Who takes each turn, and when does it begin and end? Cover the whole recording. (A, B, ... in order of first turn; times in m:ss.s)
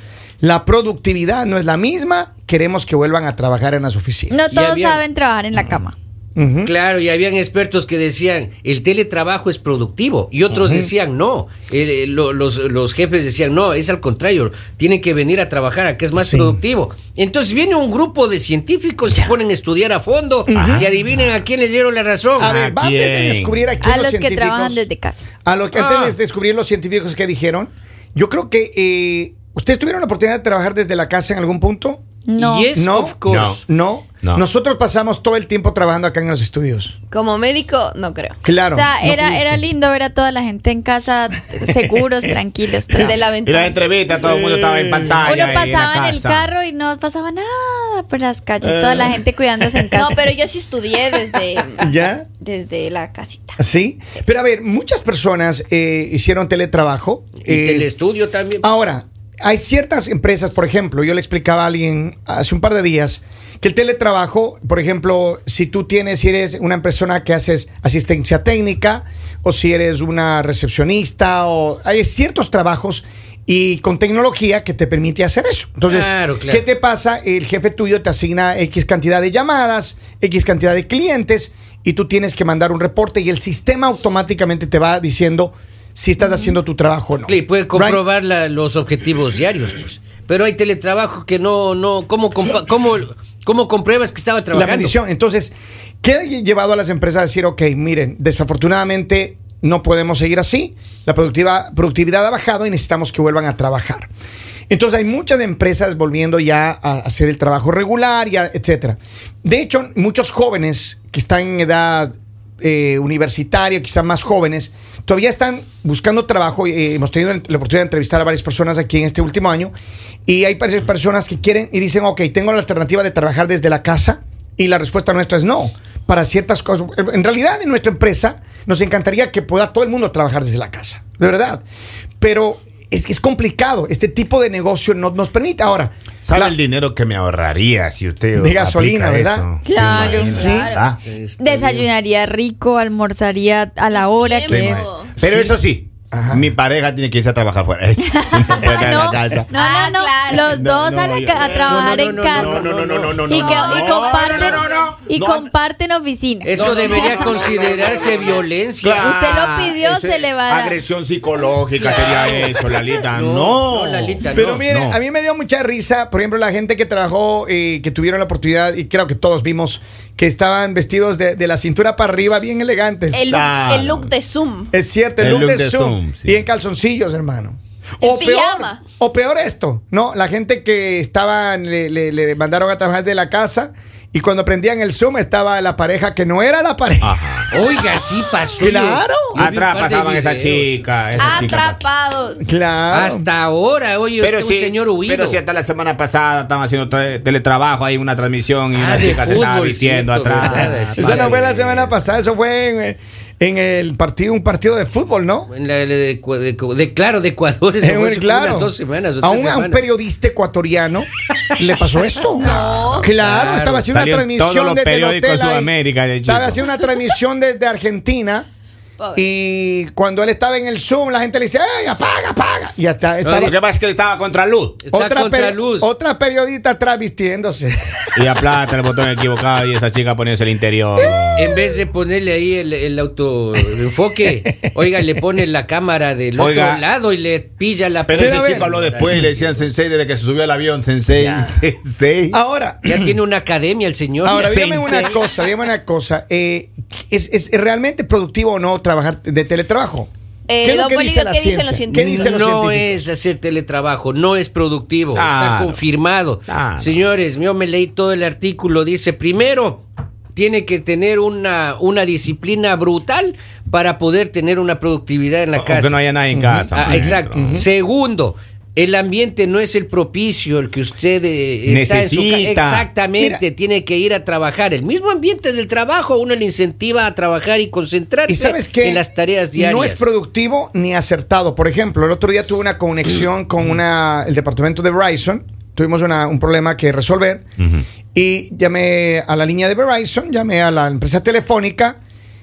0:00.4-0:04.4 A
0:04.3-0:06.0 B
0:04.5-0:05.0 C
0:06.4-0:06.7 A
0:06.6-0:22.5 C
0:10.5-0:10.9 A
0:16.2-0:16.6 A
0:20.5-0:20.9 A
0:20.6-0:20.9 D
0:22.4-0:24.8 A
0:22.4-0:23.6 D
0:23.8-0:25.2 B
0:25.4-0:32.0 A
0:25.7-0:26.2 C
0:32.3-0:32.7 B
0:32.4-0:33.6 C
0:32.8-0:37.0 A
0:33.3-0:33.6 D
0:37.1-0:38.4 E
0:38.4-0:39.6 A
0:38.7-0:43.2 B
0:42.9-0:44.4 E
0:43.4-0:46.5 D
0:44.4-0:45.1 A
0:45.2-0:50.2 B
0:48.6-0:49.2 A
0:49.9-0:53.6 E
0:51.8-0:52.3 A
0:53.6-0:57.9 A
0:57.4-0:58.6 C
0:58.6-1:28.0 A
1:15.9-1:16.6 C
1:26.2-1:26.5 B
1:27.3-1:35.0 C
1:34.5-1:44.1 A
1:44.7-1:59.7 A
2:00.3-2:11.6 A
2:12.2-2:16.6 A
2:16.2-2:21.0 D
2:18.4-2:20.7 A
2:19.6-2:20.6 B
2:20.0-2:21.0 E
2:20.2-2:21.9 C
2:21.4-2:24.9 B
2:23.9-2:25.1 E
2:24.5-2:29.5 D
2:25.2-2:25.6 A
2:26.1-2:26.5 A
2:28.3-2:32.7 B
2:29.5-2:30.5 E
2:30.5-2:35.5 D
2:31.6-2:33.4 C
2:33.3-2:37.3 B
2:33.3-2:34.9 E
2:36.5-2:39.1 C
2:36.6-2:45.0 D
2:39.0-2:40.8 B
2:41.8-2:44.6 C
2:44.3-2:53.2 A
2:53.1-2:54.7 E
2:53.3-2:54.1 D
2:54.7-3:07.2 A
2:55.2-2:56.4 D
2:58.0-2:58.8 E
3:07.0-3:07.5 D
3:07.5-3:10.8 C
3:08.6-3:09.4 A
3:09.4-3:11.8 D
3:11.2-3:12.4 E
3:12.4-3:13.3 A
3:12.9-3:15.4 C
3:14.2-3:21.9 D
3:18.8-3:21.5 C
3:20.6-3:25.5 A
3:25.5-3:29.8 C
3:27.8-3:38.5 A
3:32.4-3:33.1 E
3:32.6-3:33.9 C
3:33.9-3:36.7 D
3:39.0-3:39.3 E
3:39.2-3:43.6 A
3:43.2-3:43.6 C
3:43.4-3:44.8 D
3:44.8-3:45.9 C
3:44.9-3:48.0 A
3:48.2-3:51.4 D
3:51.0-3:51.8 A
3:51.4-3:59.7 C
3:56.4-3:56.8 D
3:58.1-4:02.4 D
3:58.1-3:58.7 A
4:01.2-4:01.5 C
4:02.3-4:03.1 A
4:02.8-4:05.3 C
4:04.2-4:10.1 A
4:10.5-4:12.1 E
4:10.6-4:13.0 A
4:11.9-4:26.0 C
4:15.2-4:15.8 D
4:16.5-4:17.0 D
4:25.6-4:27.6 D
4:26.3-4:27.7 A
4:26.7-4:40.0 C
4:31.7-4:32.9 D
4:33.2-4:33.4 A
4:38.3-4:39.0 A
4:39.5-4:47.5 A
4:48.1-4:52.0 A